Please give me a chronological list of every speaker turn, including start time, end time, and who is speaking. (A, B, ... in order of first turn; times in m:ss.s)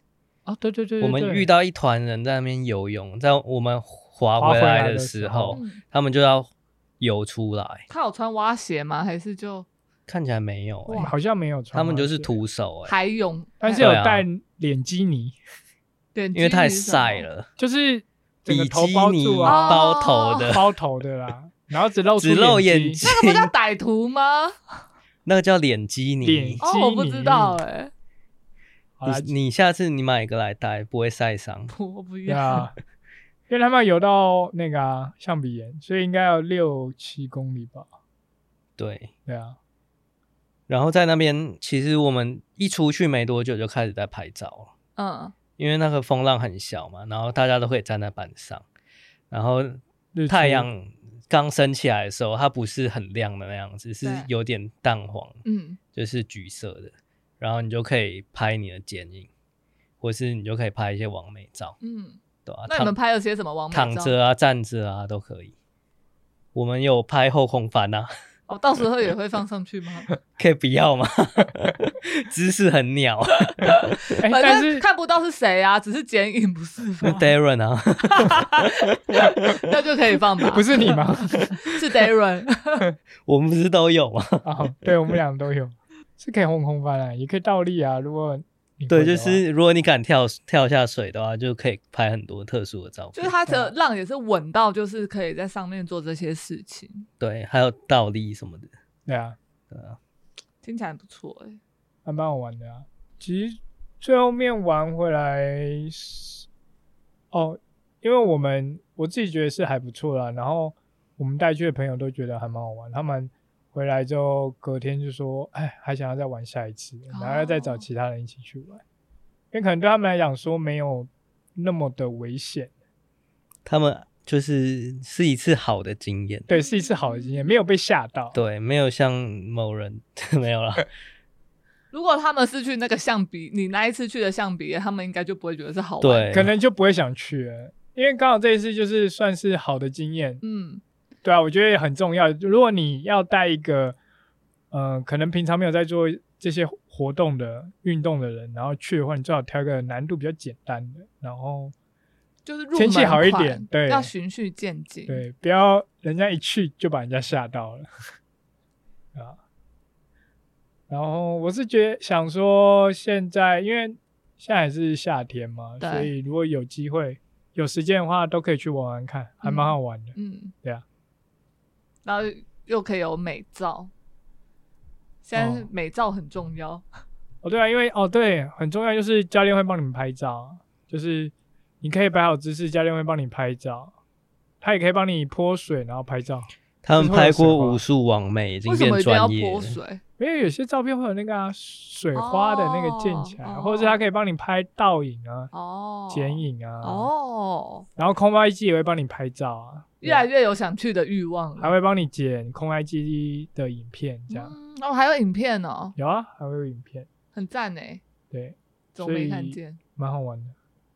0:00.5-0:01.5 A
0:01.0-0:07.9 B
0:04.4-0:05.6 A
0:05.5-0:05.8 C
0:07.9-0:09.7 C
0:10.1-0:11.1 B
0:10.9-0:11.1 C
0:11.0-0:12.3 A
0:11.7-0:13.0 B
0:12.9-0:13.9 C
0:13.6-0:15.4 A
0:13.8-0:14.2 B
0:16.1-0:17.3 C
0:16.4-0:17.5 B
0:17.6-0:23.0 A
0:18.5-0:20.6 B
0:19.4-0:20.6 C
0:22.2-0:23.5 B
0:23.0-0:24.6 C
0:25.3-0:26.6 B
0:26.2-0:27.6 A
0:26.6-0:27.9 C
0:29.0-0:29.3 A
0:29.0-0:31.7 B
0:31.7-0:32.7 C
0:32.3-0:32.7 A
0:33.5-0:37.9 A
0:38.8-0:39.1 B
0:39.3-0:39.6 A
0:40.7-0:44.7 B
0:45.0-0:45.3 C
0:45.6-0:48.6 B
0:49.3-0:55.4 B
0:50.1-0:50.7 A
0:54.0-0:54.3 C
0:55.4-0:55.8 C
0:55.9-0:59.3 B
1:00.0-1:01.8 B
1:01.8-1:04.1 C
1:02.4-1:02.9 B
1:03.7-1:05.5 B
1:06.6-1:08.1 B
1:08.5-1:10.1 C
1:10.4-1:14.0 B
1:14.2-1:14.8 A
1:14.3-1:17.3 C
1:17.0-1:19.6 B
1:18.0-1:22.9 C
1:20.5-1:21.4 A
1:23.3-1:24.7 B
1:24.4-1:29.4 A
1:28.9-1:33.4 B
1:33.1-1:37.1 C
1:33.5-1:33.7 A
1:37.2-1:38.7 B
1:39.1-1:39.4 A
1:39.7-1:40.0 B
1:40.6-1:41.6 C
1:42.0-1:46.4 A
1:47.3-1:58.8 A
1:57.1-1:57.8 C
1:59.5-2:02.7 A
2:03.7-2:06.5 B
2:06.5-2:08.4 A
2:06.5-2:07.4 C
2:08.3-2:10.9 B
2:11.9-2:16.4 C
2:16.0-2:16.5 B
2:16.3-2:20.4 A
2:20.4-2:20.8 C
2:21.2-2:24.0 A
2:24.7-2:31.7 A
2:32.4-2:35.2 C
2:32.7-2:34.1 A
2:35.1-2:37.9 A
2:40.9-2:50.8 A
2:45.8-2:46.1 C
2:49.4-2:50.5 C
2:52.0-2:53.9 C
2:55.2-2:56.9 C
2:55.4-2:55.7 A
2:57.4-3:03.9 A
3:04.6-3:07.8 A
3:06.8-3:09.8 B
3:08.7-3:10.0 C
3:10.2-3:15.5 A
3:12.1-3:14.0 C
3:15.5-3:17.9 C
3:16.1-3:17.1 A
3:18.0-3:20.3 A
3:20.0-3:21.7 C
3:21.6-3:24.5 A
3:24.3-3:26.0 C
3:26.0-3:27.1 A
3:27.3-3:28.0 C
3:28.3-3:30.6 A
3:29.0-3:29.8 C